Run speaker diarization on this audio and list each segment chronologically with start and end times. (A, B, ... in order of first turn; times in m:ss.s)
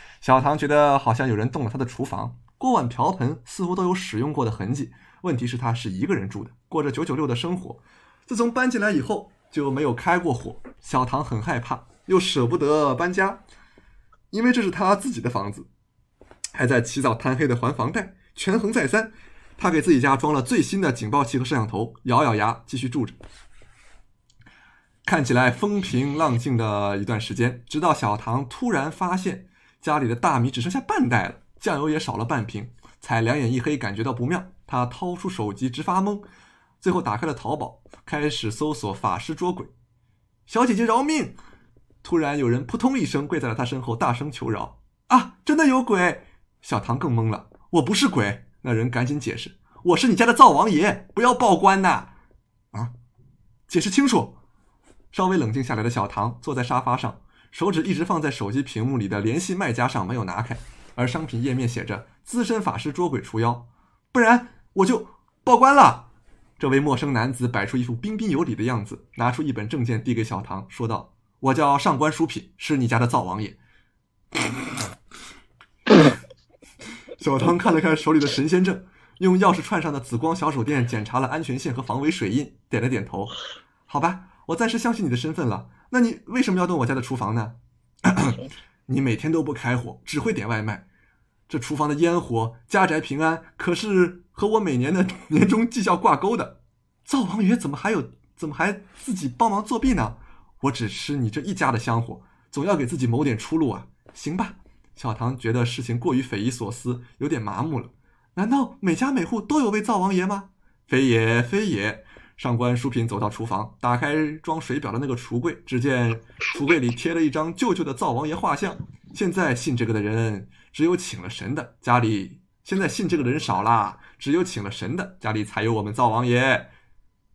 0:00.2-0:13.4 A
0:14.3-0:15.7 A
0:16.5-0:23.2 A
0:25.0-0:36.2 A
0:36.8-0:39.7 A
0:40.5-0:41.4 A
0:42.0-0:52.1 A
0:53.7-0:54.4 A
0:55.1-1:06.1 A
1:06.6-1:13.6 A
1:17.2-1:23.3 A
1:23.9-1:30.8 A
1:31.5-2:06.7 A